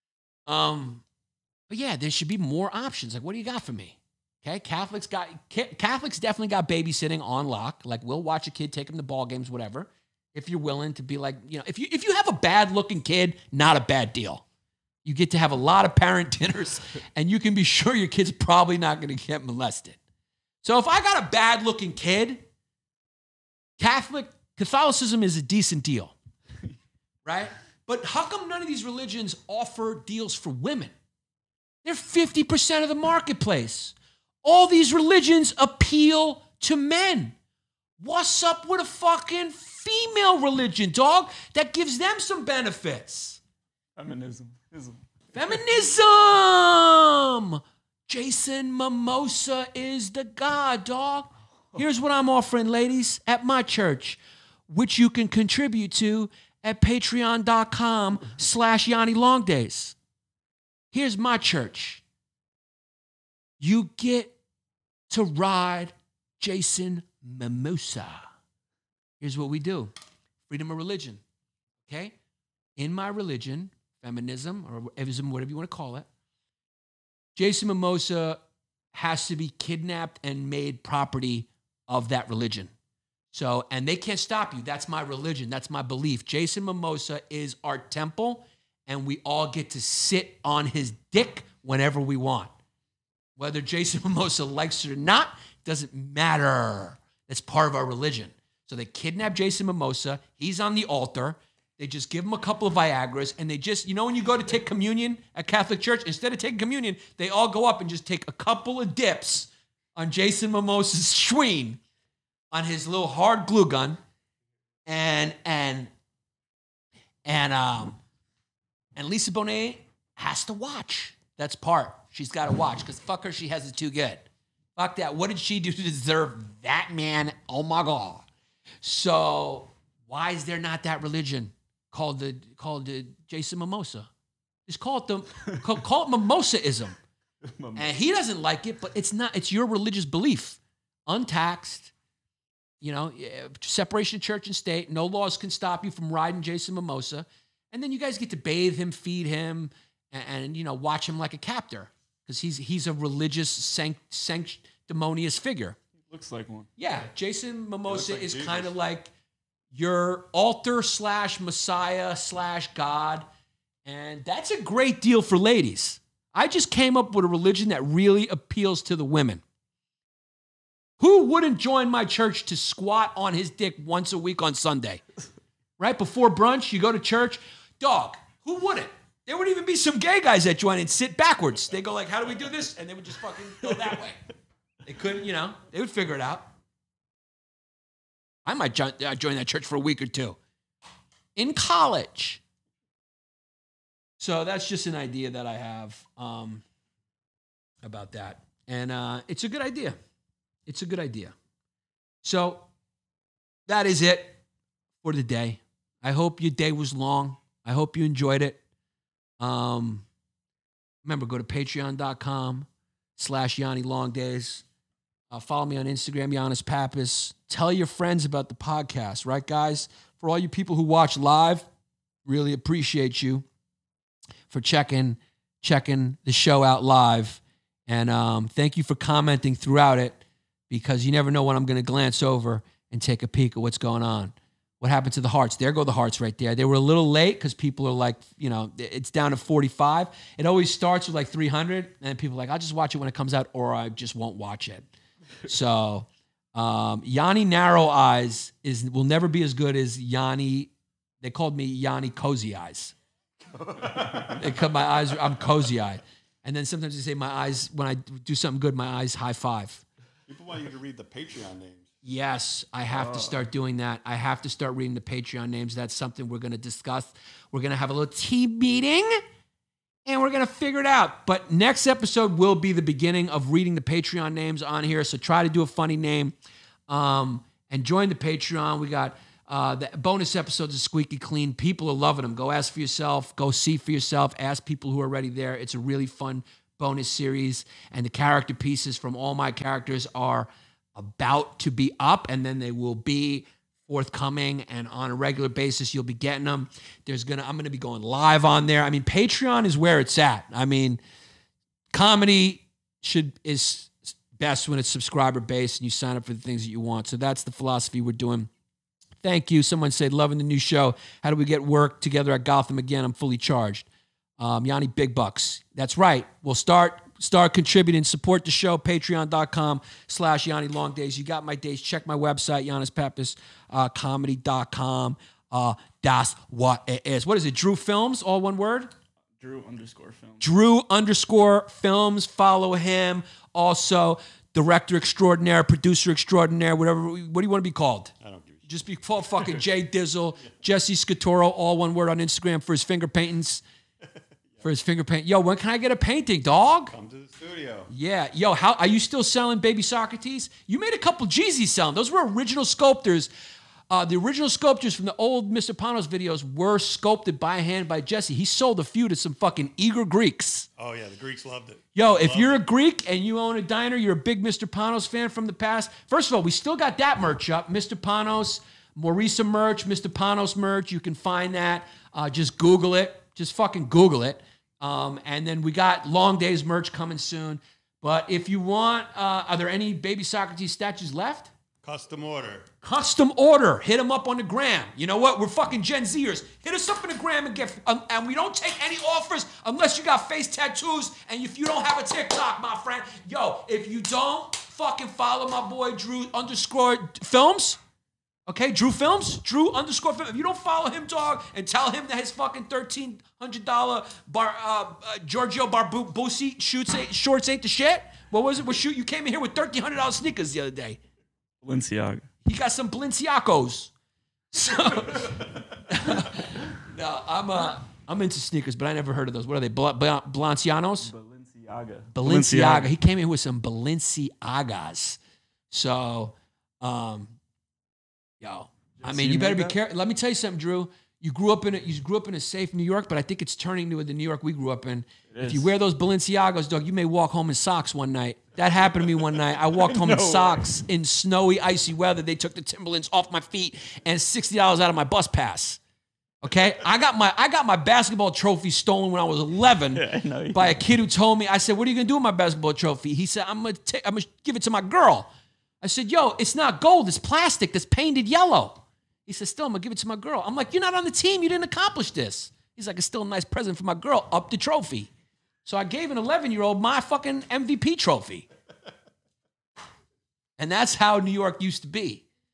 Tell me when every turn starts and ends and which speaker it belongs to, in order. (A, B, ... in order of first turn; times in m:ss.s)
0:00.5-0:01.0 A
0:01.7-0:14.4 A
0:15.0-0:20.0 A
0:20.6-0:22.4 A
0:23.8-0:26.1 A
0:27.2-0:30.9 A
0:31.8-0:37.3 A
0:38.0-0:43.4 A
0:44.0-0:45.0 B
0:45.3-1:00.0 A
1:00.9-1:02.0 A
1:03.6-1:04.3 A
1:05.1-1:08.2 A
1:09.2-1:09.9 A
1:10.5-1:11.2 A
1:11.8-1:12.1 A
1:12.8-1:16.1 A
1:17.4-1:18.4 A
1:18.9-1:22.7 A
1:23.3-1:32.5 A
1:33.4-1:51.8 A
1:52.5-1:54.0 A
1:54.8-1:55.9 A
1:57.2-1:58.0 A
1:59.0-2:08.2 A
2:08.8-2:14.1 A
2:14.7-2:17.0 A
2:17.5-2:17.9 B
2:17.7-2:21.9 A
2:22.8-2:35.8 A
2:36.1-2:36.7 B
2:36.8-2:39.1 A
2:37.9-2:38.7 C
2:39.7-2:43.2 A
2:43.8-2:49.4 A
2:51.0-2:55.0 A
2:55.8-3:04.2 A
3:04.8-3:06.5 A
3:08.4-3:10.4 A
3:11.4-3:12.4 A
3:14.2-3:16.6 A
3:17.8-3:20.0 A
3:20.7-3:21.3 A
3:22.2-3:22.6 A
3:23.7-3:24.4 A
3:25.0-3:28.6 A
3:29.4-3:30.0 A
3:31.0-3:34.6 A
3:35.3-3:41.7 A
3:42.2-3:43.4 A
3:44.5-4:04.8 A
4:05.4-4:12.9 A
4:13.5-4:14.5 C
4:14.4-4:19.8 A
4:20.3-4:21.9 C
4:22.0-4:29.2 A
4:23.0-4:23.3 B
4:30.0-4:36.3 A
4:36.9-5:01.0 A
5:01.9-5:08.5 A
5:09.2-5:13.8 A
5:14.4-5:28.9 A
5:29.4-5:30.4 B
5:30.4-5:38.1 A
5:38.2-5:38.7 C
5:38.7-5:43.6 A
5:44.6-5:46.9 A
5:46.9-5:47.9 C
5:47.9-5:53.3 A
5:53.9-6:00.7 A
6:00.8-6:02.6 C
6:01.9-6:21.5 A
6:21.8-6:22.7 C
6:22.8-6:37.8 A
6:38.5-6:51.0 A
6:51.6-6:52.2 B
6:52.4-6:53.9 A
6:54.5-7:01.1 A
7:01.0-7:02.9 B
7:02.1-7:05.2 A
7:05.7-7:07.4 A
7:08.4-7:25.8 A
7:09.0-7:09.7 B
7:15.3-7:15.7 B
7:19.8-7:20.6 B
7:26.4-7:35.3 A
7:29.9-7:30.8 B
7:35.8-7:45.1 A
7:45.6-7:48.5 A
7:50.6-7:52.2 A